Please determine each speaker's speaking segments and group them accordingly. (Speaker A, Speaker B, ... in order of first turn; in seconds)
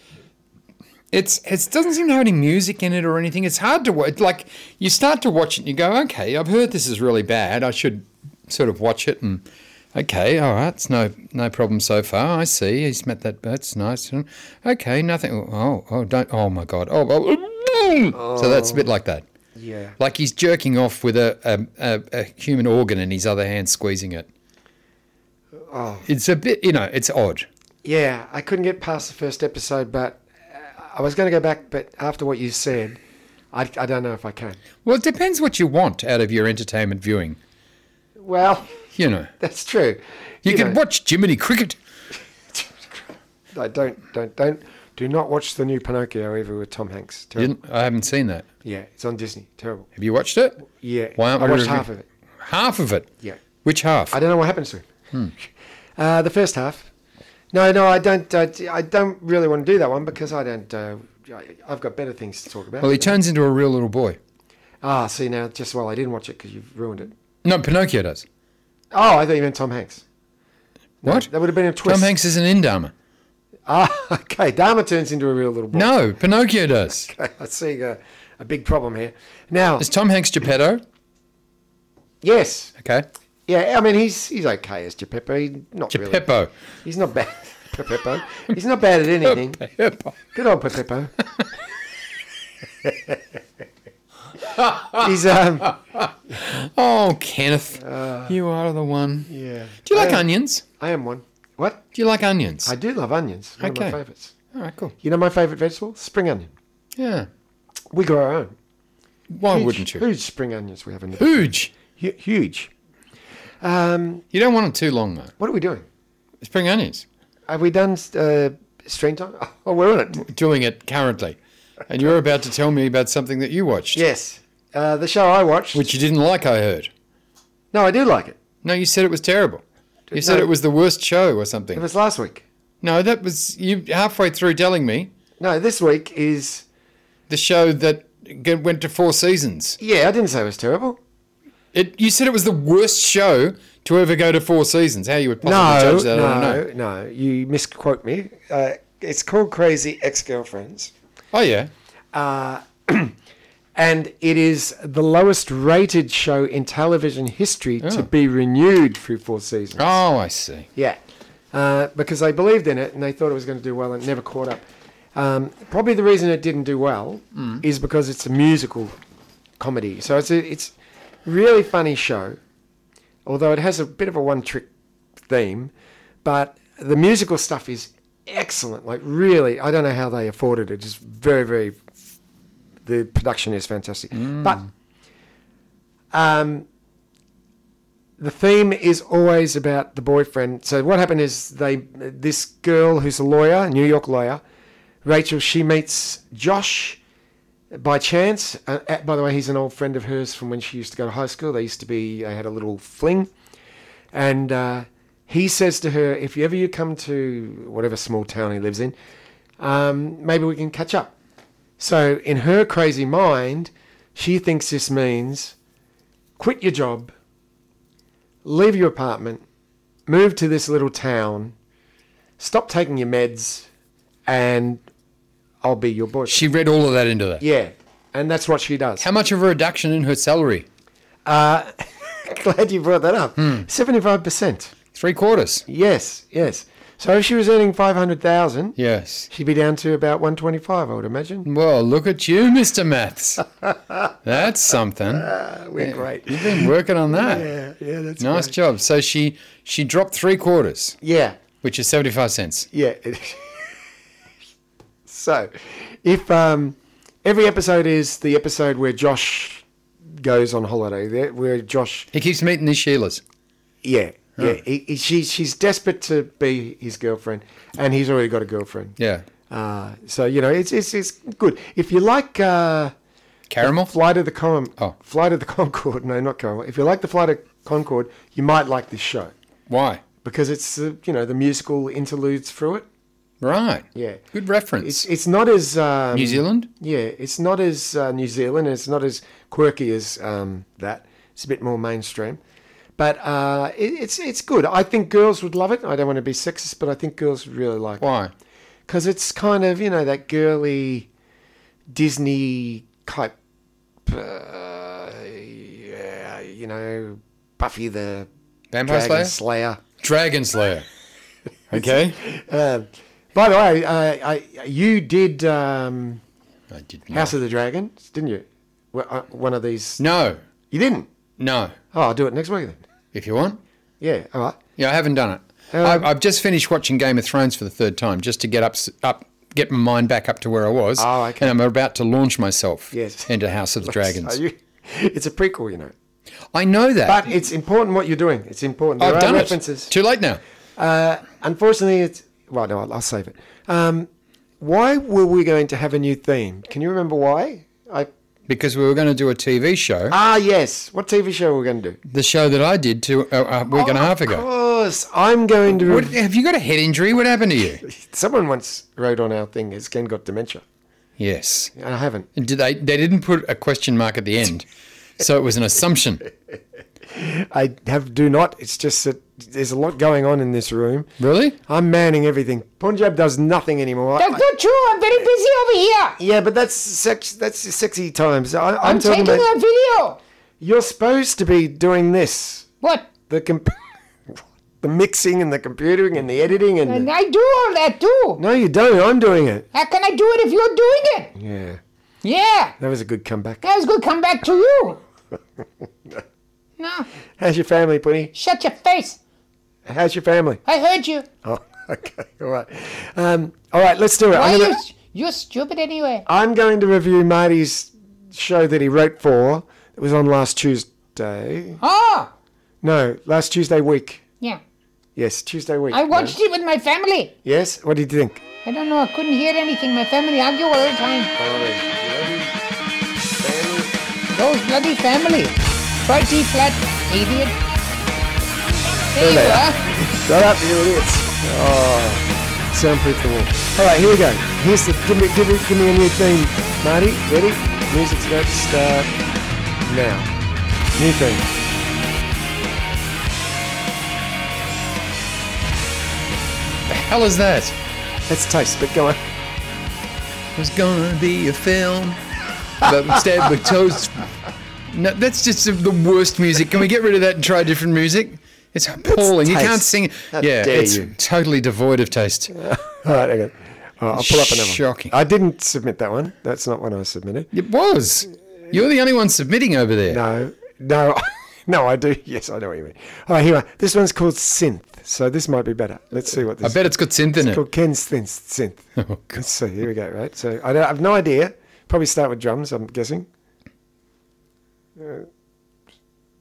Speaker A: 1.1-19.2, 20.0-24.3, 26.1-27.5, 34.8-37.4, 39.0-39.3, 40.5-41.8, 47.4-48.5, 50.0-50.7, 51.2-51.9, 52.4-53.1, 53.6-54.2, 62.8-64.2, 67.4-68.3, 71.0-71.3, 71.8-72.9, 75.7-77.1, 79.8-80.8, 82.8-83.1, 85.9-86.5, 89.3-90.2, 94.5-95.1, 95.6-99.3, 99.8-100.7, 101.9-102.7, 103.6-104.0, 104.5-105.0, 107.0-107.3, 109.3-110.1, 111.2-111.7, 114.3-115.3, 116.4-117.1, 120.2-124.0, 125.7-126.9, 128.6-131.8, 132.8-135.1, 137.3-139.8, 141.7-146.6, 151.3-151.7, 157.8-158.1, 159.8-160.7, 167.3-167.6, 184.2-184.7, 226.3-227.4, 229.0-230.7, 233.4-233.7, 234.9-235.7, 238.8-239.3, 241.4-243.5, 244.2-247.5, 248.2-251.0, 251.6-252.7, 262.1-263.2, 269.0-269.3, 273.5-273.9, 279.7-280.0, 283.4-285.1, 286.1-286.7, 298.0-298.3, 308.7-309.4, 310.0-310.9, 311.7-312.2, 316.7-317.3, 320.0-320.4, 321.4-321.8, 323.1-323.6, 324.8-334.4, 336.5-337.2, 339.0-340.4, 348.5-350.2, 352.1-354.5, 355.7-357.8, 361.2-361.7, 362.4-364.7, 365.2-366.3, 371.2-371.6, 446.9-447.8, 450.6-452.2, 452.8-454.3, 454.9-462.6, 464.1-465.1, 467.5-470.2, 476.6-477.6, 479.0-479.4
Speaker B: 18.1-18.9, 19.6-20.0, 25.6-26.1, 27.8-33.0, 33.5-34.6, 38.2-38.7, 39.4-40.8, 42.5-47.5, 48.6-49.9, 50.6-52.1, 54.1-54.9, 56.0-56.9, 57.5-63.2, 64.8-67.1, 68.9-70.0, 71.0-72.2, 73.7-76.0, 77.1-79.9, 82.2-82.7, 83.5-86.3, 86.8-89.6, 90.3-91.1, 92.8-93.2, 94.8-95.8, 97.8-98.3, 99.3-101.8, 102.7-104.3, 105.0-106.5, 107.9-108.5, 109.5-112.7, 113.6-114.2, 115.4-115.9, 117.5-120.3, 123.9-125.9, 127.7-128.4, 130.1-130.5, 131.7-132.4, 135.4-136.7, 139.8-141.0, 145.4-150.9, 152.1-153.2, 153.8-159.9, 161.5-168.9, 169.6-170.7, 171.2-172.4, 173.3-174.7, 175.3-175.7, 176.2-181.8, 182.8-184.6, 186.1-186.7, 188.2-194.4, 195.0-197.0, 197.7-203.3, 204.1-208.9, 209.6-211.1, 211.8-215.6, 216.4-217.1, 218.4-219.4, 220.1-221.6, 222.4-223.7, 224.3-224.8, 225.6-226.5, 227.4-229.1, 231.2-234.7, 235.7-238.8, 239.3-241.5, 243.6-244.1, 245.1-248.6, 251.0-251.4, 252.7-253.8, 255.1-262.1, 263.8-272.9, 273.6-279.3, 280.2-282.9, 283.9-284.2, 284.8-292.4, 293.0-298.1, 298.9-301.1, 301.9-303.3, 304.1-308.3, 308.9-309.8, 311.7-316.2, 317.1-320.0, 320.7-321.1, 321.9-322.8, 324.0-324.6, 325.7-326.1, 331.0-331.6, 332.9-333.3, 333.8-335.9, 337.1-339.9, 340.8-344.1, 344.6-348.1, 350.1-352.0, 353.7-356.2, 357.8-360.6, 361.8-362.3, 367.0-371.1, 371.7-374.4, 376.2-379.5, 380.6-382.7, 383.3-387.1, 388.4-389.7, 391.4-391.8, 392.8-393.6, 397.4-398.3, 399.9-400.6, 401.4-404.8, 406.3-411.8, 412.8-414.2, 415.2-416.4, 417.4-418.4, 421.4-422.5, 423.4-423.9, 429.2-439.1, 439.8-440.3, 440.9-441.5, 448.3-449.2, 459.0-461.1, 462.5-467.5, 470.1-483.3, 485.0-485.3
Speaker C: 374.2-376.2, 378.8-380.2, 382.8-383.1, 386.9-388.4, 389.7-391.3, 392.2-392.8, 393.6-395.0, 396.8-397.1, 398.4-399.2, 400.7-401.3, 404.3-406.3, 411.8-412.3, 415.9-417.3, 418.6-421.3, 424.3-427.6, 429.1-429.8